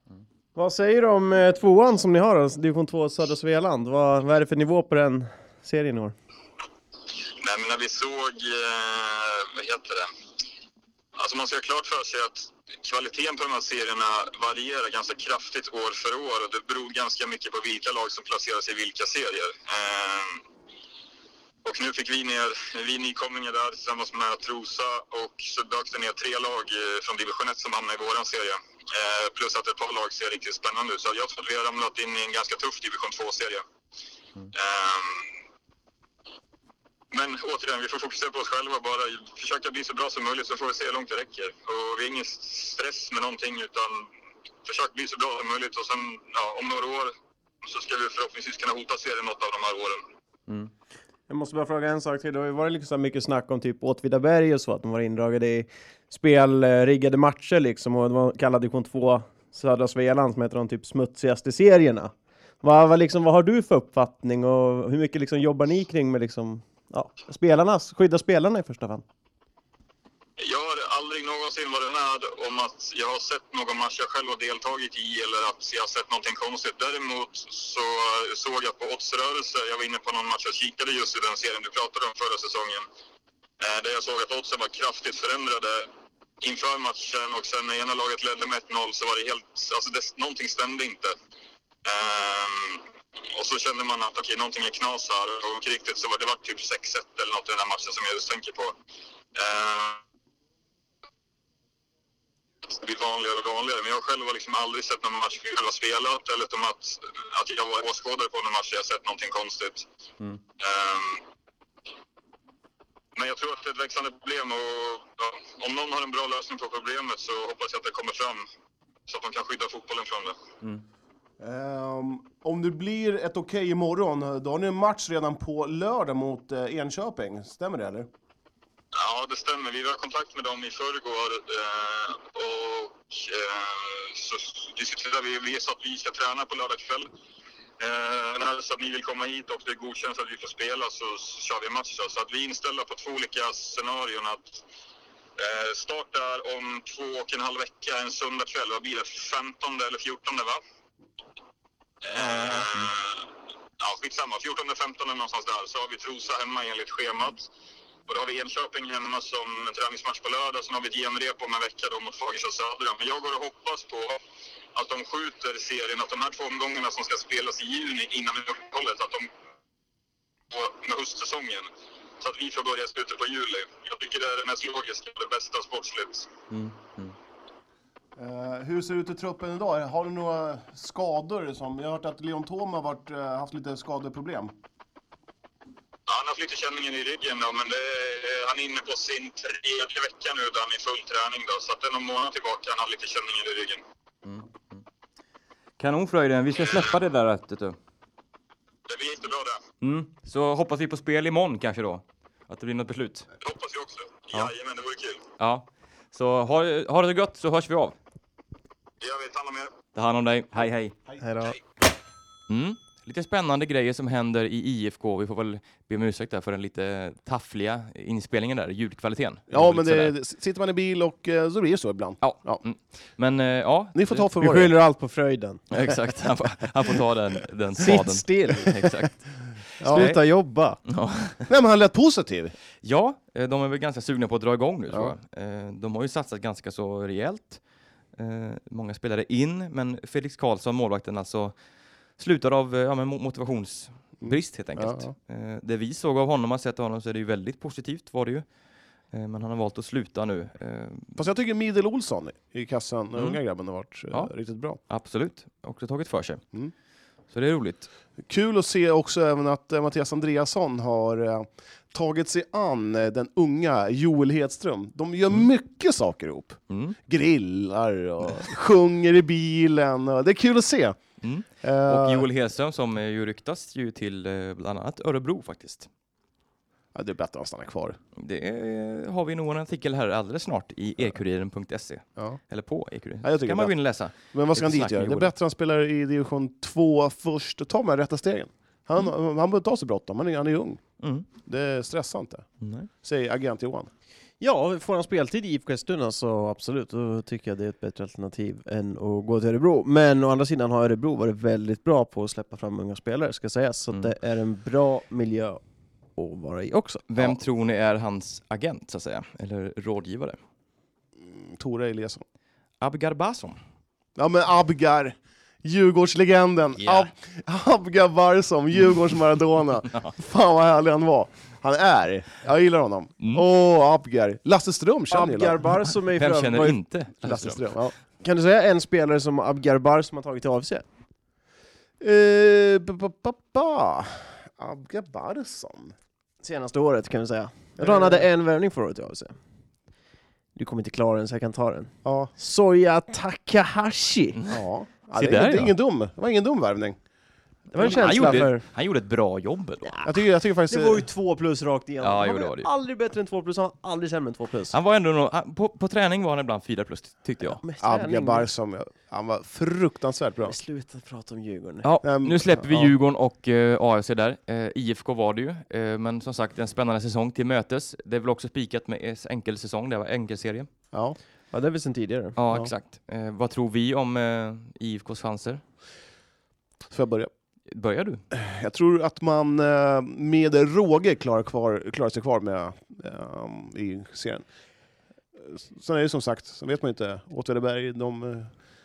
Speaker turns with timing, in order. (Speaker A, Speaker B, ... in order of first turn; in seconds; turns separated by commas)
Speaker A: 0.6-6.2, Speaker B: 7.4-10.1, Speaker B: 11.2-20.4, Speaker B: 21.6-33.6, Speaker B: 34.5-35.3, Speaker B: 37.1-44.1, Speaker B: 44.6-50.0, Speaker A: 51.3-69.0, Speaker B: 70.4-82.8, Speaker B: 83.6-85.9, Speaker B: 86.4-91.1, Speaker B: 91.8-98.7, Speaker B: 99.3-100.0, Speaker B: 102.7-109.8, Speaker B: 110.6-111.2, Speaker B: 113.1-118.4, Speaker B: 119.1-120.4, Speaker C: 121.4-128.1, Speaker B: 128.9-137.1, Speaker B: 137.8-144.6, Speaker B: 145.4-150.6, Speaker B: 152.0-153.3, Speaker B: 153.8-157.5, Speaker B: 158.1-164.2, Speaker B: 164.7-169.3, Speaker B: 170.5-171.7, Speaker B: 172.2-176.3, Speaker D: 176.5-177.1, Speaker C: 178.2-184.5, Speaker B: 186.1-193.8, Speaker D: 194.2-194.8, Speaker D: 195.8-197.8, Speaker B: 196.6-196.9, Speaker B: 198.9-199.6, Speaker D: 199.8-203.3, Speaker B: 203.4-205.2, Speaker D: 205.4-207.9, Speaker B: 209.0-209.8, Speaker D: 209.9-211.0, Speaker A: 211.2-211.6, Speaker D: 212.5-220.1, Speaker C: 219.5-222.6, Speaker D: 222.2-224.3, Speaker C: 223.9-224.7, Speaker A: 224.4-225.8, Speaker D: 225.7-229.2, Speaker A: 227.8-229.1, Speaker D: 229.8-230.2, Speaker C: 229.8-230.1, Speaker A: 229.9-230.8, Speaker D: 230.8-231.5, Speaker C: 231.5-232.5, Speaker D: 232.8-237.6, Speaker D: 238.2-241.5, Speaker D: 242.2-248.4, Speaker C: 244.2-245.1, Speaker D: 249.1-251.2, Speaker C: 251.2-254.8, Speaker D: 254.9-256.4, Speaker D: 257.3-257.9, Speaker C: 258.2-271.0, Speaker D: 266.7-267.0, Speaker D: 271.2-275.9, Speaker C: 271.6-272.3, Speaker C: 276.9-278.0, Speaker D: 278.2-285.3, Speaker C: 283.2-283.7, Speaker C: 284.2-290.8, Speaker D: 291.0-291.3, Speaker C: 291.4-292.5, Speaker D: 292.6-292.9, Speaker C: 293.0-293.9, Speaker A: 294.4-305.6, Speaker A: 306.1-307.3, Speaker D: 307.1-310.4, Speaker C: 311.2-312.2, Speaker D: 312.8-313.6, Speaker C: 314.1-325.6, Speaker D: 316.8-317.1, Speaker A: 325.1-326.8, Speaker D: 326.2-327.6, Speaker C: 327.2-327.9, Speaker A: 328.2-330.9, Speaker C: 332.0-335.9, Speaker A: 336.4-339.3, Speaker C: 337.8-338.2, Speaker A: 340.6-344.4, Speaker C: 342.0-342.3, Speaker C: 344.5-347.0, Speaker D: 345.1-345.7, Speaker A: 347.7-348.6, Speaker C: 347.7-348.4, Speaker D: 347.8-349.9, Speaker A: 349.8-350.1, Speaker C: 350.0-351.0, Speaker A: 350.7-354.8, Speaker D: 352.0-352.7, Speaker D: 354.7-357.6, Speaker A: 357.5-358.5, Speaker C: 357.8-360.5, Speaker A: 360.4-361.9, Speaker D: 361.8-370.7, Speaker C: 362.0-362.9, Speaker C: 370.9-371.2, Speaker A: 371.5-372.4, Speaker D: 372.4-375.6, Speaker C: 376.9-377.3, Speaker D: 377.7-378.2, Speaker C: 378.3-384.4, Speaker C: 385.4-388.5